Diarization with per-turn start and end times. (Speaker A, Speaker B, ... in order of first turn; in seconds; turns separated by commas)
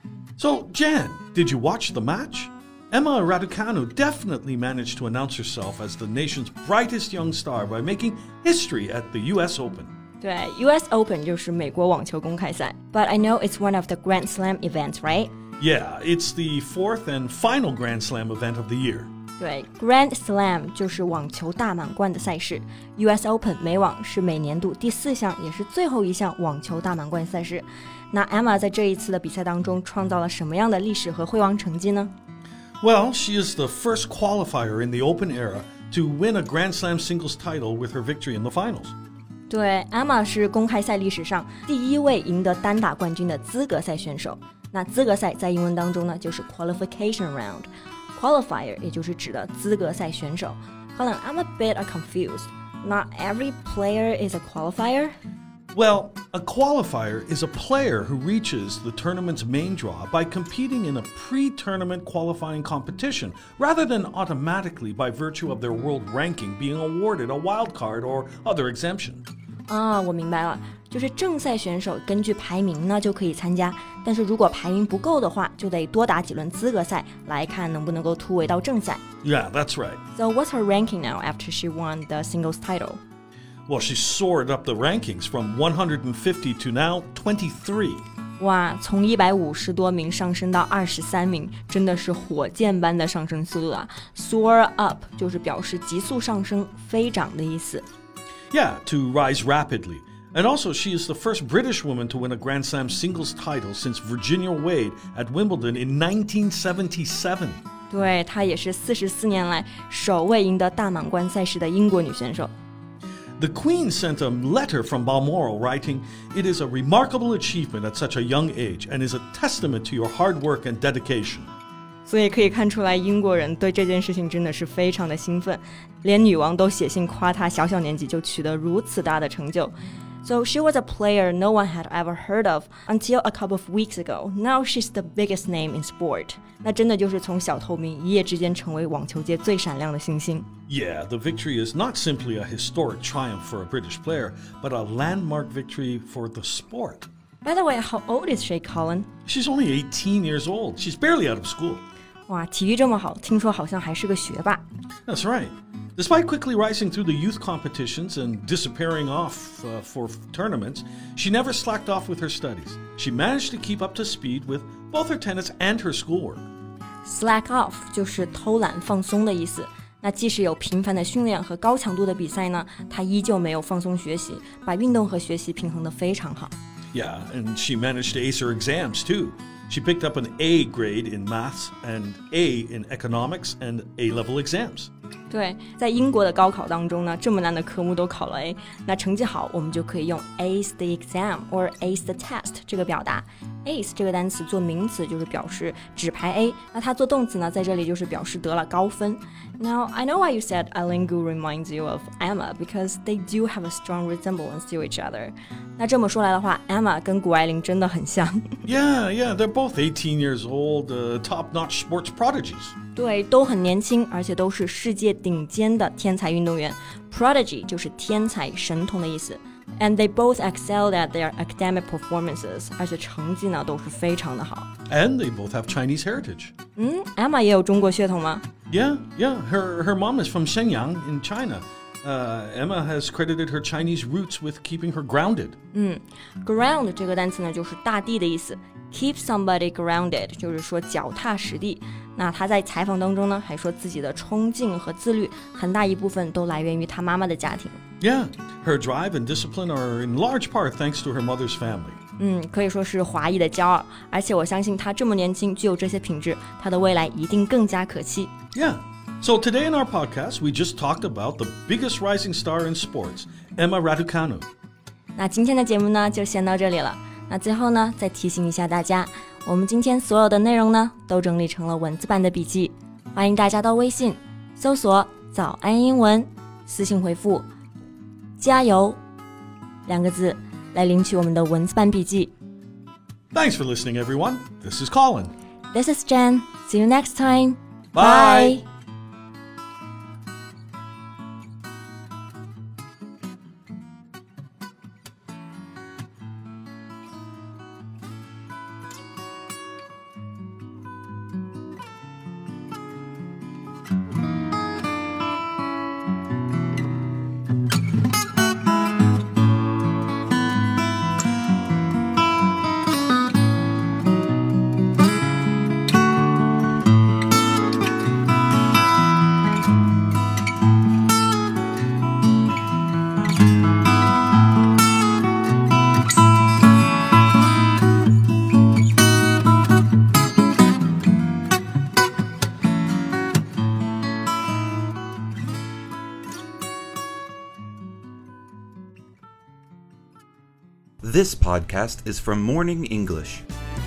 Speaker A: 0.4-9.9, Speaker B: 10.2-15.3, Speaker A: 15.6-19.1, Speaker B: 19.4-32.1, Speaker A: 32.8-38.9, Speaker B: 39.5-55.1, Speaker A: 55.7-69.2, Speaker B: 69.7-79.0, Speaker A: 79.2-80.0, Speaker B: 80.1-83.0, Speaker A: 83.7-88.0, Speaker B: 88.4-97.8, Speaker A: 98.5-107.6, Speaker B: 107.9-112.5, Speaker A: 113.4-121.5, Speaker B: 122.0-140.5, Speaker A: 140.7-147.1, Speaker B: 147.4-149.1, Speaker A: 149.2-151.8, Speaker B: 152.3-154.6, Speaker A: 155.1-166.5, Speaker B: 167.0-176.5, Speaker A: 176.9-184.9, Speaker B: 185.3-208.6, Speaker A: 208.7-212.7, Speaker B: 212.9-224.7, Speaker A: 224.9-226.5, Speaker B: 226.8-228.4, Speaker A: 228.7-235.6, Speaker B: 235.7-247.8, Speaker A: 248.0-252.0, Speaker B: 252.2-258.3, Speaker A: 258.5-264.5, Speaker B: 265.1-277.5, Speaker B: 278.4-279.0, Speaker B: 279.9-282.3, Speaker A: 283.3-285.3, Speaker B: 285.7-288.6, Speaker A: 287.9-288.6, Speaker C: 341.0-343.4